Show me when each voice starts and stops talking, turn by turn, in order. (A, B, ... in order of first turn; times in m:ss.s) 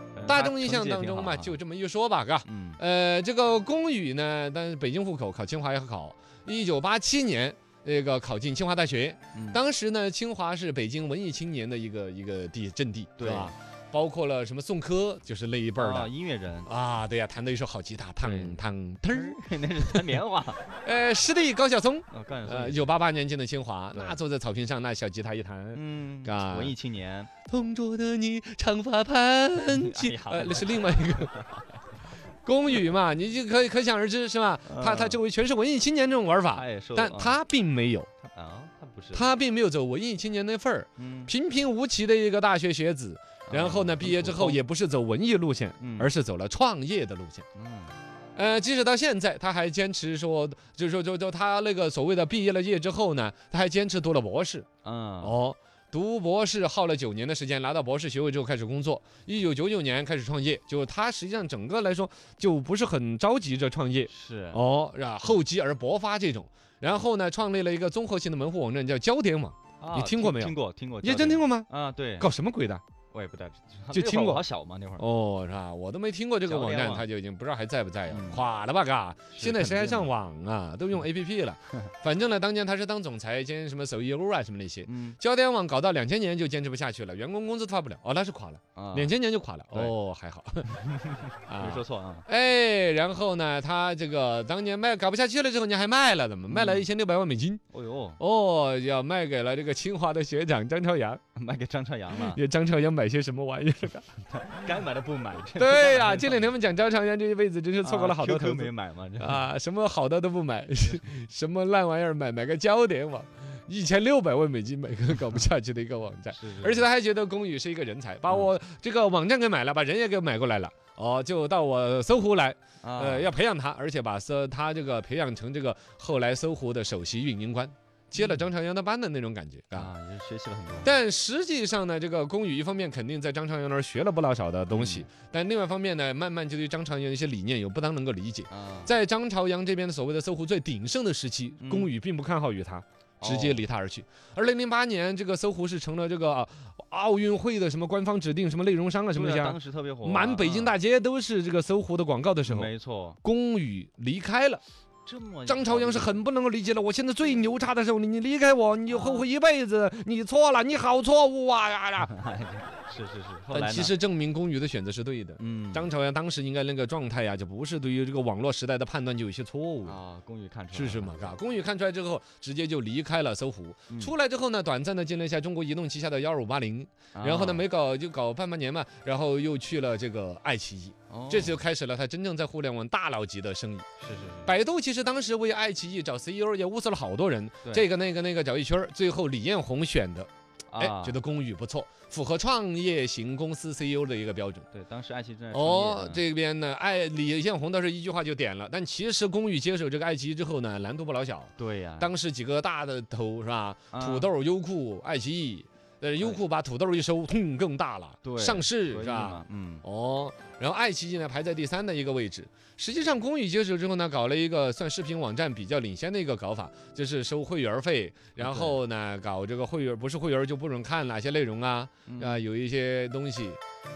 0:00.1-0:01.6 A
0:00.2-0:16.1 B
0:02.4-0:02.8 A
0:09.3-0:09.6 A
0:13.2-0:13.5 A
0:15.8-0:16.7 A
0:16.7-0:20.0 B
0:18.2-0:20.6 A
0:20.8-0:26.8 B
0:22.1-0:22.9 A
0:23.9-0:24.2 A
0:25.7-0:27.3 A
0:27.5-0:31.4 B
0:29.6-0:31.7 A
0:32.4-0:38.1 B
0:34.6-0:35.2 A
0:36.5-0:37.4 A
0:38.3-0:39.3 A
0:39.1-0:47.4 B
0:41.0-0:41.3 A
0:43.5-0:44.6 A
0:45.8-0:46.1 A
0:47.5-0:47.9 A
0:48.4-0:54.7 B
0:54.8-0:55.4 A
0:55.2-1:11.7 B
1:04.1-1:04.6 A
1:09.8-1:12.3 A
1:12.2-1:12.8 B
1:13.1-1:15.1 A
1:13.9-1:14.4 B
1:15.0-1:30.8 B
1:16.5-1:17.1 A
1:18.1-1:18.4 A
1:19.3-1:20.1 A
1:24.8-1:25.2 A
1:28.8-1:29.1 A
1:31.5-1:37.6 B
1:31.5-1:32.3 A
1:36.5-1:36.9 A
1:37.7-1:38.2 A
1:38.2-1:41.2 B
1:41.3-1:42.4 A
1:42.1-1:44.1 B
1:44.3-1:46.5 A
1:45.6-2:09.9 B
1:47.8-1:49.5 A
1:56.3-1:56.8 A
2:02.8-2:03.3 A
2:08.2-2:08.5 A
2:09.7-2:10.9 A
2:10.8-2:32.7 B
2:14.7-2:15.1 A
2:18.5-2:18.9 A
2:21.6-2:21.9 A
2:23.2-2:23.6 A
2:29.1-2:30.8 A
2:32.4-2:33.2 A
2:33.2-2:34.6 B
2:35.1-2:36.2 A
2:35.5-2:42.1 B
2:38.9-2:39.3 A
2:42.1-2:43.9 A
2:43.5-2:50.0 B
2:45.4-2:45.9 A
2:49.9-2:51.4 A
2:50.7-3:03.9 B
2:57.1-2:57.7 A
3:01.1-3:01.6 A
3:04.0-3:04.5 A
3:04.4-3:14.7 B
3:10.7-3:11.2 A
3:14.7-3:16.2 A
3:15.5-3:43.6 B
3:21.6-3:22.1 A
3:23.9-3:24.3 A
3:28.2-3:29.8 A
3:38.4-3:38.8 A
3:42.1-3:42.4 A